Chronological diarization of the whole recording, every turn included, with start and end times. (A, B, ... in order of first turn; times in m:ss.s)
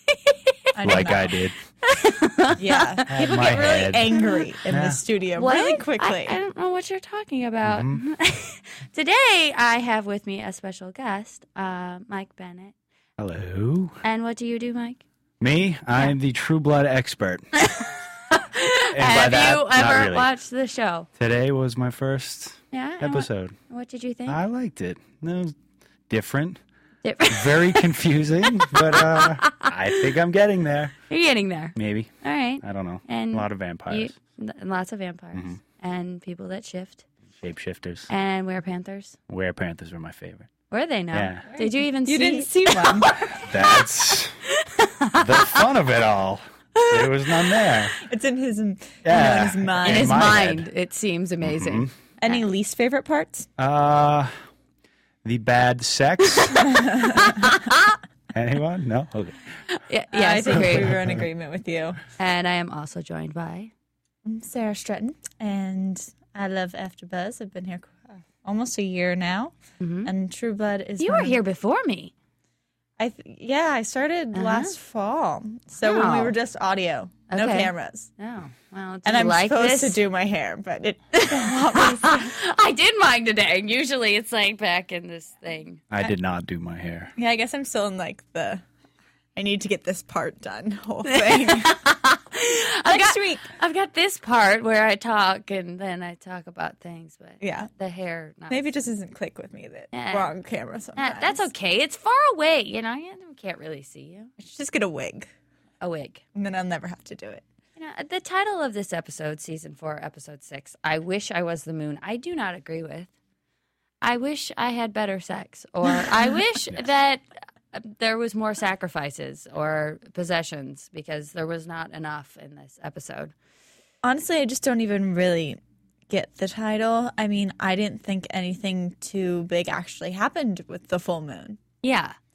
0:00.7-0:01.3 A
0:00.8-0:01.6 B
0:01.8-0:04.4 C
0:02.6-0:06.4 A
0:03.1-0:05.0 B
0:05.4-0:12.7 C
0:07.6-0:08.0 B
0:13.2-0:14.0 B
0:14.0-0:15.0 C
0:15.4-0:17.5 B
0:17.6-0:21.1 C
0:18.9-0:20.3 B
0:21.2-0:23.6 B
0:22.7-0:24.4 C
0:24.3-0:25.6 B
0:26.1-0:26.6 B
0:27.0-0:27.9 C
0:27.3-0:30.9 B
0:28.6-0:29.7 C
0:31.1-0:37.0 C
0:31.8-0:32.1 B
0:32.6-0:34.2 B
0:35.3-0:35.6 B
0:37.4-0:38.1 B
0:38.1-0:39.2 C
0:39.3-0:40.5 B
0:40.7-0:43.8 C
0:41.1-0:41.5 B
0:42.1-0:43.2 A
0:43.4-0:44.4 B
0:44.6-0:45.6 C
0:45.1-0:48.0 B
0:48.0-0:50.4 A
0:49.0-0:50.7 B
0:49.8-0:52.4 C
0:51.4-0:51.9 B
0:52.2-0:53.5 A
0:53.6-0:54.3 B
0:55.2-0:56.6 B
0:56.7-0:57.2 A
0:57.2-0:57.9 C
0:58.3-0:59.4 B
0:59.7-1:00.9 C
1:00.1-1:02.0 A
1:00.6-1:01.2 B
1:02.2-1:03.7 C
1:04.2-1:11.4 A
1:09.8-1:10.1 C
1:11.0-1:12.1 C
1:13.0-1:18.1 A
1:14.3-1:14.8 C
1:15.8-1:16.3 C
1:17.3-1:20.0 C
1:19.0-1:22.3 A
1:21.1-1:25.8 C
1:25.9-1:27.1 B
1:27.2-1:28.6 A
1:29.4-1:31.8 A
1:31.1-1:38.7 C
1:32.8-1:33.5 A
1:37.4-1:37.7 A
1:38.5-1:41.5 A
1:39.9-1:40.3 C
1:41.0-1:44.3 C
1:44.4-1:45.3 A
1:45.8-1:46.2 C
1:46.4-1:47.4 A
1:47.8-1:53.1 C
1:54.0-2:03.3 C
2:04.0-2:11.6 A
2:11.8-2:12.2 C